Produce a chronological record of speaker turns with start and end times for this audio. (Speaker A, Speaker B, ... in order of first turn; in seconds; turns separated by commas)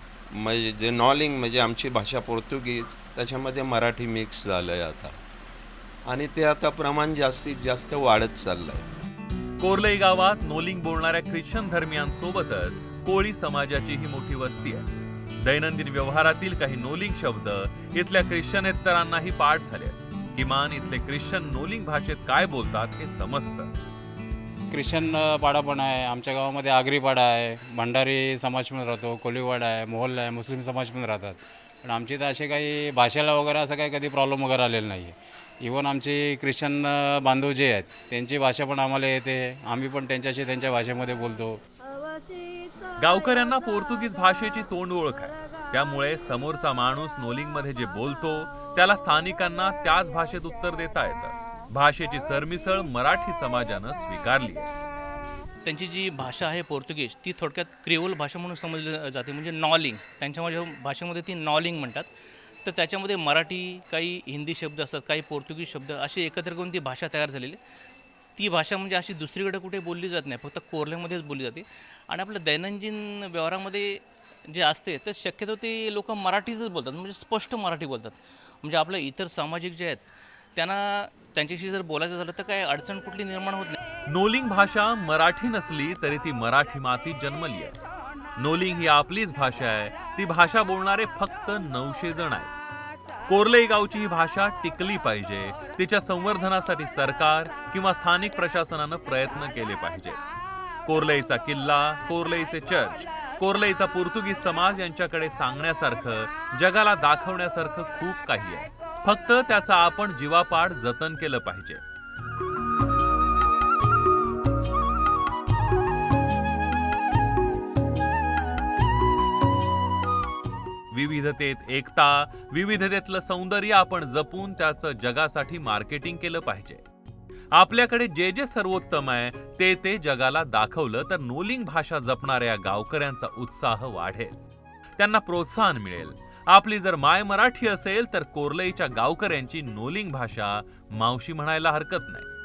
Speaker A: 0.3-5.2, Speaker A: 6.1-8.8, Speaker B: 9.6-14.9, Speaker B: 15.4-23.7, Speaker C: 24.7-41.6, Speaker B: 43.0-54.7, Speaker D: 55.6-62.1, Speaker D: 62.6-67.6, Speaker D: 68.4-83.8, Speaker B: 84.1-87.7, Speaker B: 88.4-92.5, Speaker B: 93.3-100.2, Speaker B: 100.8-111.8, Speaker B: 120.9-126.8, Speaker B: 127.5-134.4, Speaker B: 135.0-142.3